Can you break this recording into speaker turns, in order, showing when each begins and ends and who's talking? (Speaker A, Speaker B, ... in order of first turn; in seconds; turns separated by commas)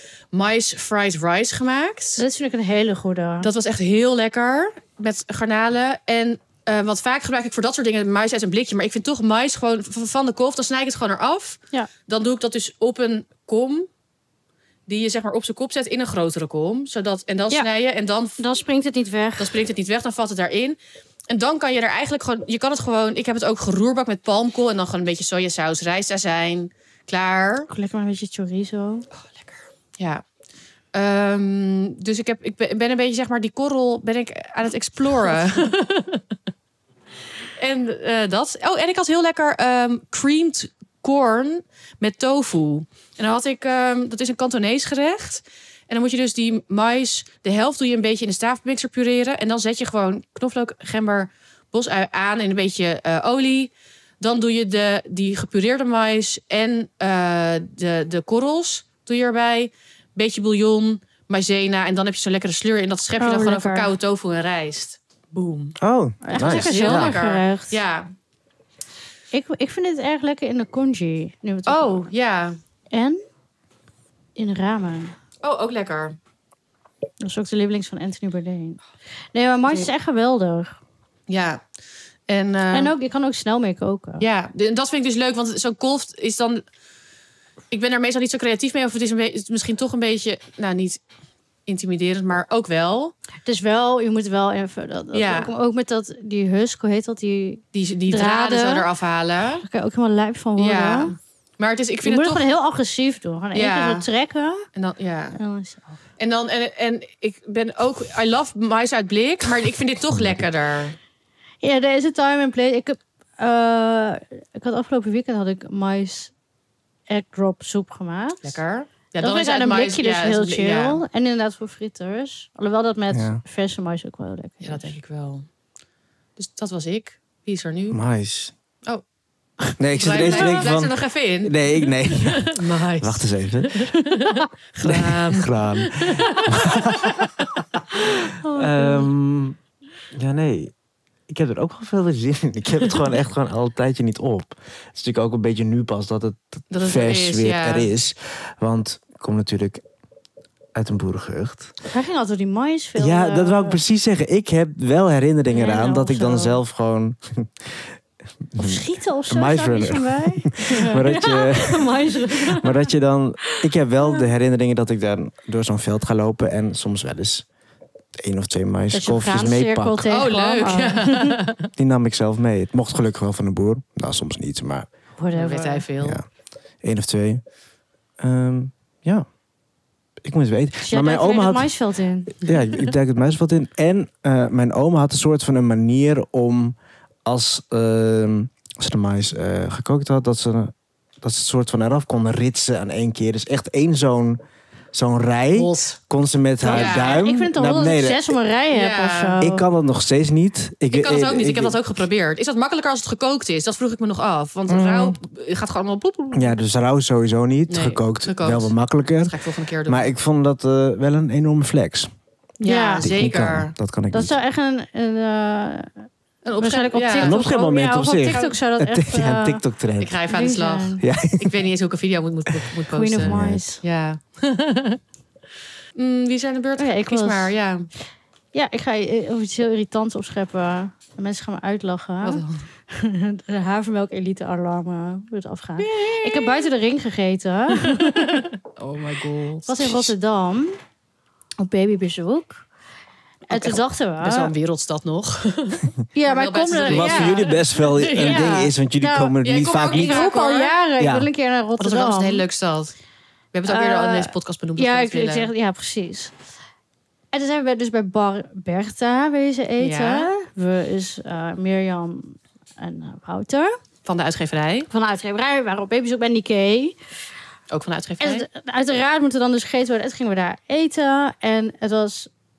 Speaker A: 0.3-2.2, Speaker B: 2.2-3.5, Speaker A: 3.4-13.9, Speaker A: 14.9-18.4, Speaker B: 18.4-19.6, Speaker A: 19.4-20.8, Speaker A: 21.3-27.7, Speaker B: 27.7-29.1, Speaker A: 29.2-30.2, Speaker A: 30.9-36.2, Speaker A: 37.6-65.8, Speaker B: 63.2-63.9, Speaker C: 65.8-67.2, Speaker B: 66.2-67.8, Speaker A: 66.3-68.1, Speaker B: 69.3-72.1, Speaker A: 71.7-72.6, Speaker B: 72.9-73.2, Speaker B: 74.4-75.2, Speaker A: 75.4-76.2, Speaker B: 77.2-78.8, Speaker B: 79.3-80.8, Speaker A: 81.3-81.6, Speaker A: 82.3-82.9, Speaker B: 82.7-84.2, Speaker A: 84.2-86.6, Speaker A: 87.7-91.0, Speaker A: 91.7-93.2, Speaker B: 93.5-98.9, Speaker A: 95.1-95.5, Speaker A: 97.7-99.7, Speaker B: 99.6-101.1, Speaker A: 100.6-102.5, Speaker B: 102.0-104.7, Speaker A: 103.5-104.1, Speaker A: 104.8-105.4, Speaker B: 105.4-106.0, Speaker A: 106.2-111.0, Speaker C: 110.2-110.4, Speaker B: 111.6-116.3, Speaker B: 117.1-118.6, Speaker A: 118.4-121.0, Speaker B: 119.2-125.0, Speaker C: 123.1-123.4, Speaker A: 124.6-125.5, Speaker A: 126.4-128.0, Speaker C: 127.9-128.5, Speaker C: 129.8-133.9, Speaker A: 129.9-137.5, Speaker B: 130.2-130.6, Speaker C: 134.8-137.8, Speaker B: 138.0-139.1, Speaker C: 138.4-139.6, Speaker C: 140.1-140.7, Speaker C: 141.3-149.8, Speaker A: 146.7-147.9, Speaker C: 150.8-151.7, Speaker B: 151.9-153.8, Speaker C: 153.0-157.8, Speaker B: 155.5-156.6, Speaker C: 158.5-167.5, Speaker B: 158.6-162.9, Speaker B: 163.5-164.3, Speaker C: 168.2-170.1, Speaker B: 168.9-171.4, Speaker A: 170.1-171.7, Speaker C: 171.8-174.9, Speaker B: 175.2-175.9, Speaker A: 175.3-176.2, Speaker C: 176.8-177.4, Speaker C: 178.2-179.3, Speaker C: 180.2-181.7, Speaker B: 180.8-182.3, Speaker C: 182.4-194.4, Speaker C: 194.9-198.4, Speaker A: 195.6-196.0, Speaker B: 196.6-199.7, Speaker A: 196.7-197.2, Speaker A: 198.7-199.4, Speaker C: 199.4-201.8, Speaker A: 200.9-206.6, Speaker C: 204.7-205.2, Speaker C: 206.3-209.3, Speaker A: 207.7-210.1, Speaker C: 209.9-212.1, Speaker B: 212.6-213.1, Speaker A: 212.6-213.7, Speaker C: 213.0-214.3, Speaker B: 214.1-215.9, Speaker A: 216.4-217.4, Speaker B: 216.6-219.6, Speaker C: 217.2-220.2, Speaker A: 218.2-218.6, Speaker A: 220.0-225.0, Speaker B: 220.3-221.0, Speaker C: 221.0-221.6, Speaker C: 222.6-223.6, Speaker B: 222.9-223.8, Speaker A: 226.0-227.9, Speaker B: 226.8-227.5, Speaker B: 228.5-238.5, Speaker A: 232.2-232.6, Speaker A: 235.8-236.7, Speaker A: 237.8-239.7, Speaker B: 239.7-240.8, Speaker C: 239.8-240.1, Speaker B: 241.6-242.6, Speaker B: 243.5-244.5, Speaker A: 243.5-248.5, Speaker B: 246.2-247.6, Speaker C: 246.8-250.3, Speaker B: 248.2-252.5, Speaker A: 249.4-250.8, Speaker C: 251.0-251.3, Speaker A: 251.8-252.9, Speaker A: 253.5-255.5, Speaker B: 253.7-256.3, Speaker B: 257.3-263.7, Speaker A: 259.8-260.3, Speaker A: 264.1-264.9, Speaker B: 264.9-267.0, Speaker A: 267.7-268.5, Speaker B: 268.2-272.3